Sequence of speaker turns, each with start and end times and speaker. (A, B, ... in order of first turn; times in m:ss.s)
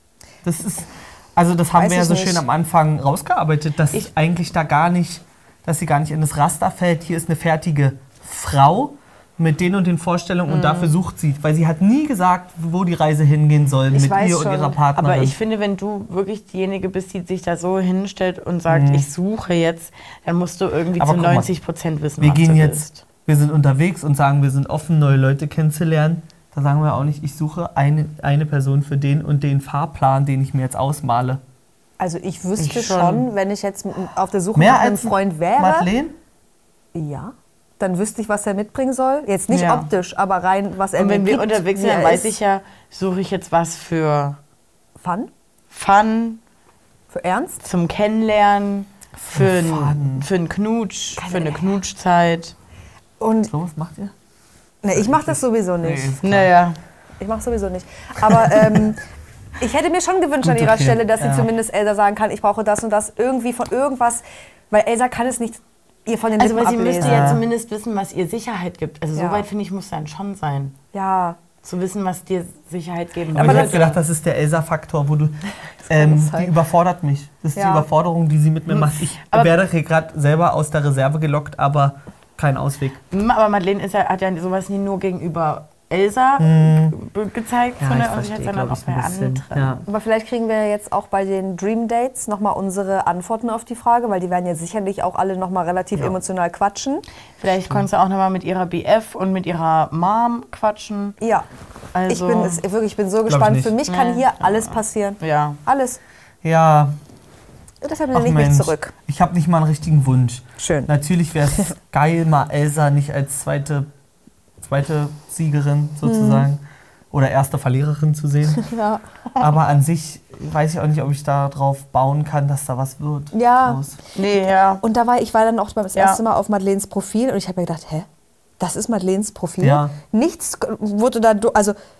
0:00.4-0:15.4 A
0:01.7-0:02.4 B
0:10.5-0:10.9 C
0:13.9-0:14.8 B
0:15.0-0:23.0 C
0:18.7-0:19.1 A
0:21.0-0:21.5 A
0:22.2-0:31.4 A
0:32.0-0:35.9 B
0:32.6-0:33.2 C
0:34.6-0:36.2 A
0:36.9-0:42.3 B
0:39.5-0:39.9 C
0:41.0-0:44.4 C
0:45.0-0:45.3 B
0:45.7-0:46.4 C
0:47.1-0:47.6 B
0:47.6-0:52.5 C
0:49.3-0:50.3 A
0:51.2-0:51.8 B
0:53.2-0:53.5 B
0:53.5-0:54.1 A
0:54.8-0:56.1 B
0:54.9-0:56.5 A
0:56.2-0:56.8 C
0:57.2-0:59.0 B
0:58.5-0:58.9 A
0:59.6-1:07.4 B
1:00.4-1:01.5 A
1:06.4-1:10.7 C
1:07.0-1:07.4 A
1:09.1-1:09.4 B
1:10.9-1:11.4 B
1:11.6-1:14.0 C
1:13.3-1:23.0 A
1:13.4-1:13.8 B
1:15.9-1:16.5 B
1:17.5-1:17.9 B
1:18.7-1:19.5 C
1:23.1-1:29.8 C
1:26.4-1:26.9 A
1:27.8-1:29.8 A
1:29.9-1:37.0 B
1:37.4-1:41.2 C
1:41.2-1:41.5 B
1:41.9-1:42.6 C
1:42.1-1:46.0 B
1:43.3-1:43.7 A
1:43.8-1:45.6 C
1:46.4-1:47.0 A
1:47.8-1:48.9 B
1:48.1-1:53.9 A
1:50.6-1:50.9 B
1:54.6-1:58.7 A
1:56.0-1:56.5 B
1:58.6-1:59.0 B
1:59.4-2:04.0 A
2:03.3-2:03.8 B
2:04.1-2:04.8 C
2:04.8-2:08.1 B
2:05.9-2:06.2 C
2:08.6-2:11.8 B
2:09.6-2:09.9 A